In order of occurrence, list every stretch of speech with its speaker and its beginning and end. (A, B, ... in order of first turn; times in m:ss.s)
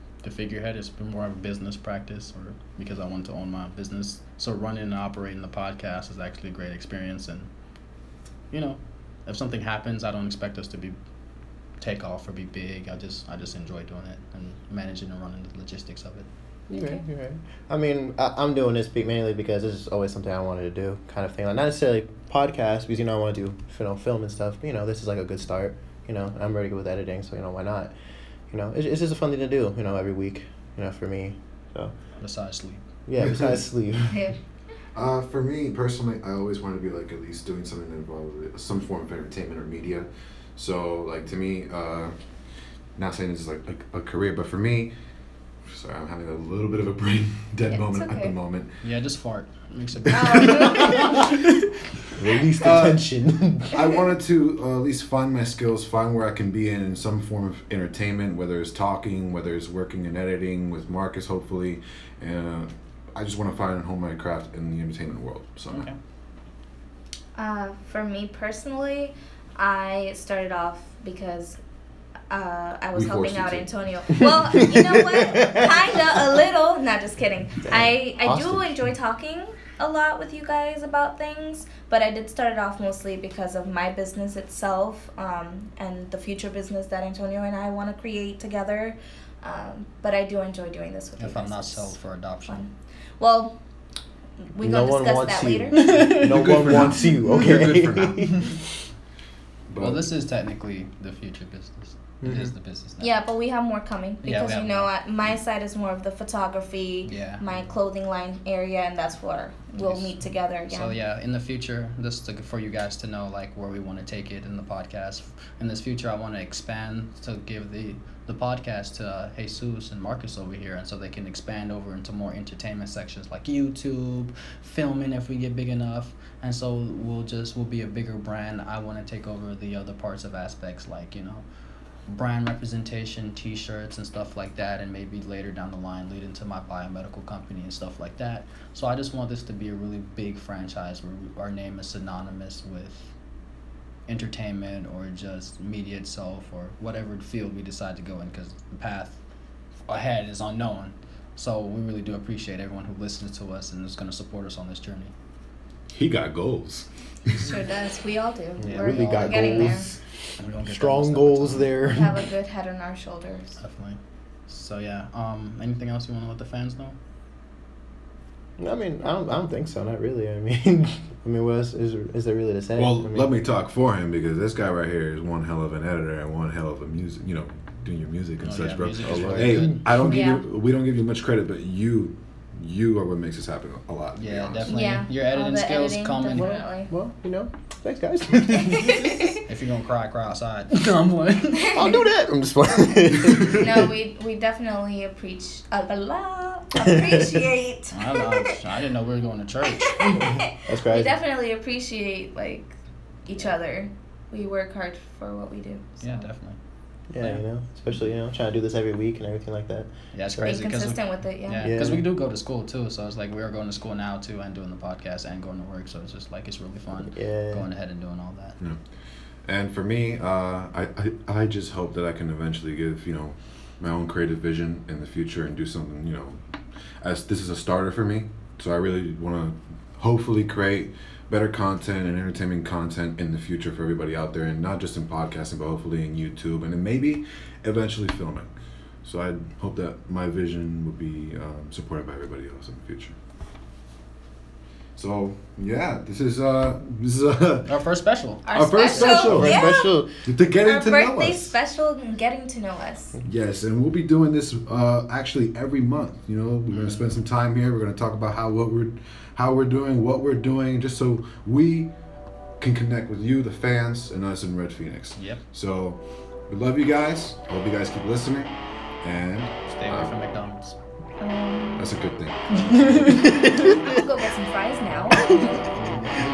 0:00.2-0:07.5 A
0:08.5-0:11.0 A
0:11.8-0:16.3 A
0:16.7-0:27.9 B
0:16.7-0:17.0 C
0:28.5-0:31.9 B
0:32.2-0:32.8 A
0:33.1-0:34.2 B
0:33.2-0:33.5 D
0:34.1-0:34.4 C
0:34.9-0:42.1 D
0:43.0-0:44.9 D
0:45.7-0:48.7 D
0:47.7-0:48.3 C
0:48.8-0:51.5 A
0:50.1-0:51.3 C
0:50.2-0:50.9 D
0:52.2-0:53.9 B
0:52.6-0:53.0 D
0:53.7-1:05.9 D
1:05.7-1:06.0 A
1:07.4-1:11.6 C
1:12.3-1:31.9 C
1:12.9-1:13.7 D
1:14.6-1:15.7 B
1:17.6-1:18.8 B
1:31.2-1:32.6 A
1:32.5-1:33.6 C
1:34.6-1:35.8 C
1:34.6-1:38.6 B
1:35.8-1:36.7 A
1:36.2-1:38.4 D
1:39.7-1:40.1 D
1:39.8-1:43.1 A
1:42.2-1:42.5 B
1:43.0-1:51.0 C
1:44.2-1:44.9 A
1:47.0-1:47.4 A
1:49.8-2:11.4 A
2:12.1-2:23.1 A
2:24.1-2:29.2 A
2:29.9-2:35.1 A
2:35.9-2:37.5 D
2:37.4-2:39.9 C
2:38.6-2:40.0 B
2:38.7-2:39.8 A
2:40.4-2:41.9 A
2:40.6-2:42.2 B
2:41.9-2:43.6 C
2:43.6-2:47.0 A
2:48.6-2:53.3 B
2:52.8-3:04.9 D
2:58.4-2:59.9 A
2:59.1-2:59.8 B
3:00.0-3:00.4 C
3:04.1-3:06.6 A
3:04.7-3:06.9 C
3:06.3-3:09.3 B
3:08.6-3:09.3 C
3:09.4-3:11.8 A
3:11.7-3:12.0 C
3:11.7-3:13.9 B
3:13.5-3:18.0 C
3:17.9-3:20.2 A
3:20.0-3:22.7 C
3:20.6-3:21.1 B
3:23.2-3:26.3 C
3:26.0-3:26.6 A
3:27.1-3:30.6 B
3:30.1-3:38.6 A
3:30.4-3:31.7 C
3:31.6-3:32.1 B
3:37.1-3:37.6 B
3:39.4-3:46.4 D
3:47.0-3:58.5 D
3:59.0-4:03.1 D
4:05.0-4:07.8 D
4:07.7-4:08.4 A
4:08.4-4:10.0 C
4:08.5-4:09.7 D
4:08.9-4:10.1 B
4:10.2-4:11.6 D
4:10.6-4:13.1 C
4:13.2-4:21.9 D
4:16.7-4:17.0 A
4:22.6-4:30.1 D
4:25.2-4:25.4 A
4:29.7-4:30.7 A
4:31.2-4:31.9 C
4:31.8-4:33.4 D
4:32.7-4:33.4 A
4:33.4-4:35.4 C